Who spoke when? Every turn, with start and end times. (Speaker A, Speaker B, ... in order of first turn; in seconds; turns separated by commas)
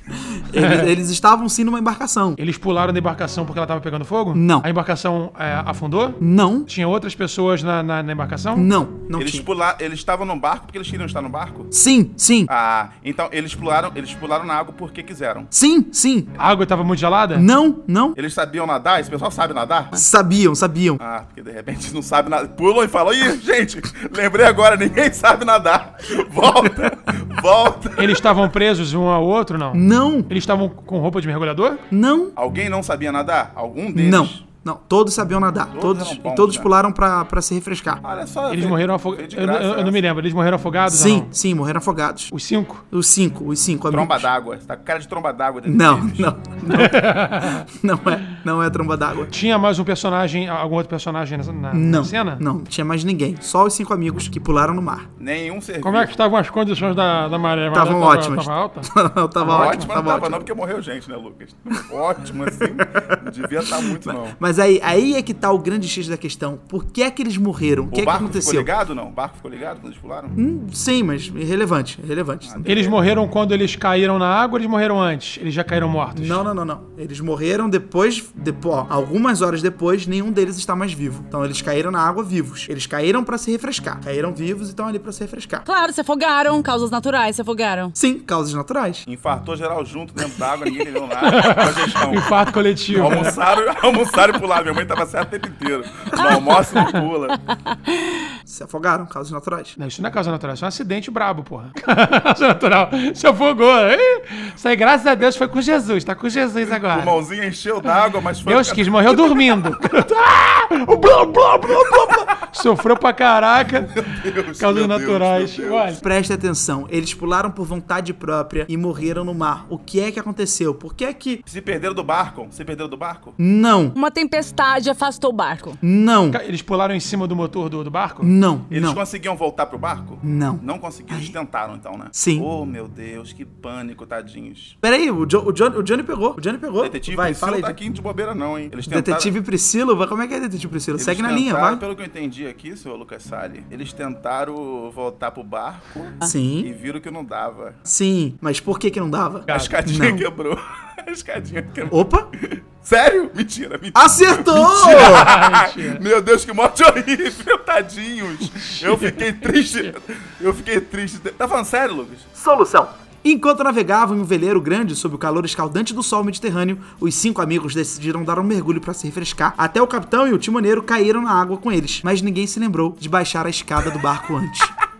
Speaker A: 0.3-2.4, Speaker B: 0.6-0.9, Speaker B: 2.4-8.7, Speaker A: 4.3-4.7, Speaker A: 6.2-6.7, Speaker A: 8.5-9.4, Speaker C: 9.1-11.7, Speaker A: 11.7-12.5, Speaker C: 12.5-15.5, Speaker A: 15.5-16.3, Speaker B: 16.4-17.5, Speaker A: 17.3-18.2, Speaker C: 18.1-19.9, Speaker A: 19.9-21.0, Speaker C: 21.0-28.2, Speaker B: 28.0-31.8, Speaker A: 29.7-30.3, Speaker A: 31.9-32.3, Speaker C: 32.4-34.4, Speaker A: 33.9-38.0, Speaker C: 35.7-36.7, Speaker C: 38.0-40.0, Speaker B: 38.5-41.3, Speaker A: 40.9-42.3, Speaker B: 42.3-42.8, Speaker A: 42.9-44.3, Speaker C: 43.9-46.3, Speaker A: 45.6-49.3, Speaker B: 46.7-47.6, Speaker B: 49.3-52.4, Speaker A: 51.7-55.1, Speaker C: 55.2-56.1, Speaker B: 55.8-58.9, Speaker A: 57.7-60.5, Speaker B: 59.4-59.9, Speaker C: 59.4-64.3, Speaker A: 62.8-68.7, Speaker C: 67.9-70.4, Speaker A: 70.3-72.9, Speaker C: 72.4-73.0, Speaker B: 72.6-76.4, Speaker A: 76.1-85.6, Speaker D: 85.7-87.9, Speaker A: 87.9-89.0, Speaker C: 89.0-97.4, Speaker B: 91.2-93.4, Speaker D: 96.2-96.7, Speaker A: 98.5-99.8, Speaker B: 99.8-107.2, Speaker C: 106.7-109.4, Speaker B: 108.4-113.9, Speaker C: 113.8-116.0, Speaker B: 114.6-116.0, Speaker A: 116.0-121.4, Speaker C: 121.5-123.4, Speaker A: 123.4-123.9, Speaker D: 123.9-125.8, Speaker A: 125.8-126.4, Speaker B: 126.3-128.3, Speaker A: 128.2-129.0, Speaker C: 128.7-134.8, Speaker A: 130.2-131.3, Speaker A: 132.1-132.5, Speaker A: 134.8-137.8, Speaker C: 136.8-139.3, Speaker A: 138.9-141.8, Speaker C: 140.9-147.8, Speaker A: 146.2-146.7, Speaker A: 147.8-150.2, Speaker C: 149.5-162.3, Speaker A: 151.9-152.3, Speaker A: 153.9-155.3, Speaker B: 154.6-156.0, Speaker B: 158.5-159.2, Speaker A: 162.3-174.7